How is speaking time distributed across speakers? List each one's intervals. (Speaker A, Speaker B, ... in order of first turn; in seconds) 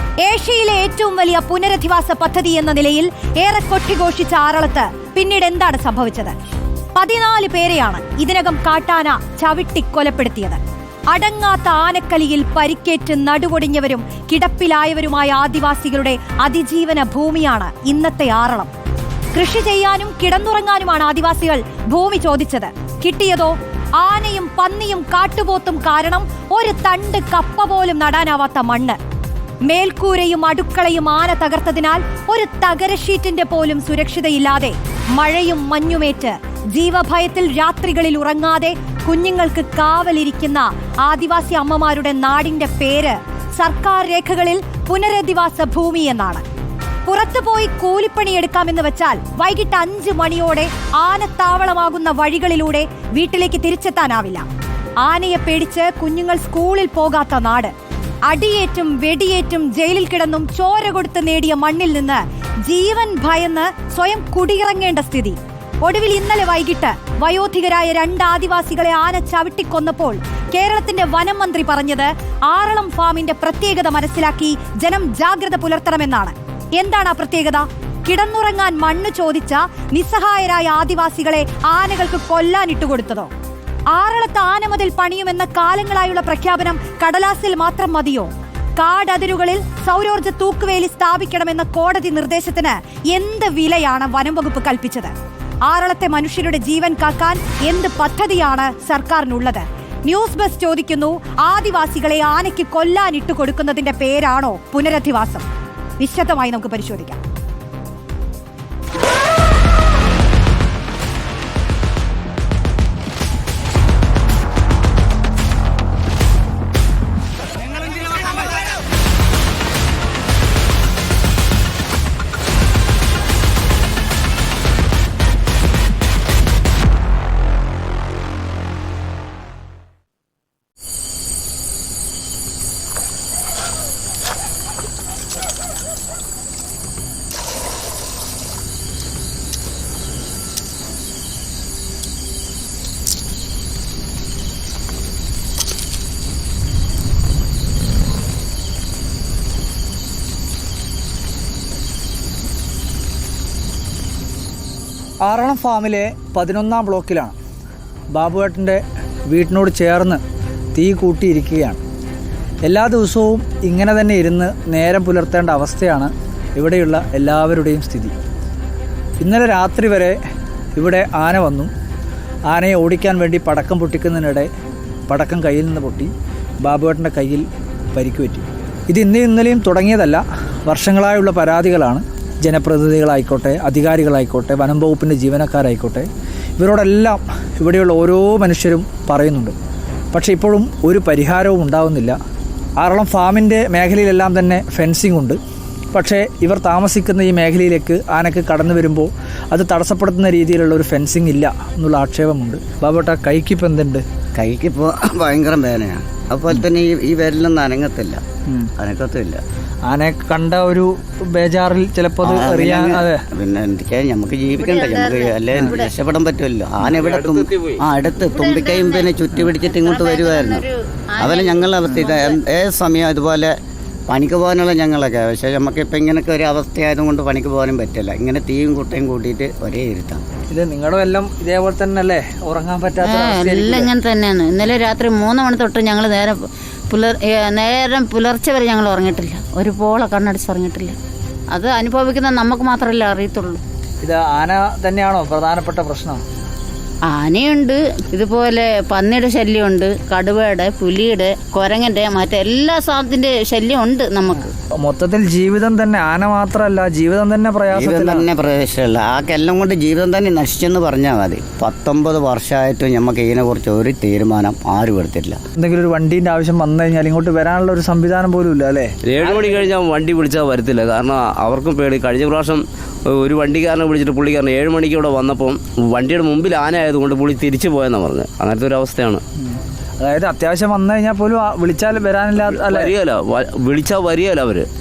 Speaker A: 0.2-6.3, 7.0-10.6, 11.1-18.7, 19.3-29.0, 29.6-46.4, 47.1-54.5, 55.0-57.7, 58.3-83.3, 83.9-95.1, 95.7-105.4, 106.0-107.2
Speaker B: 155.2-157.3, 158.1-160.2, 160.7-161.8, 162.6-168.1, 169.2-170.2, 170.8-171.7, 172.5-174.5, 175.1-189.5, 190.1-192.2, 192.8-195.4, 195.9-204.1, 209.9-213.2, 230.5-233.9, 244.0-246.2, 254.8-258.2, 265.6-269.7, 279.4-282.9
Speaker C: 204.3-208.2, 208.8-209.4, 212.2-220.6, 221.2-223.5, 224.1-230.2, 257.7-265.4
Speaker D: 214.6-215.9, 218.3-222.4, 233.0-240.9, 241.5-243.6, 247.0-254.5
Speaker E: 216.8-217.8, 269.0-272.6, 273.1-279.2, 282.4-284.7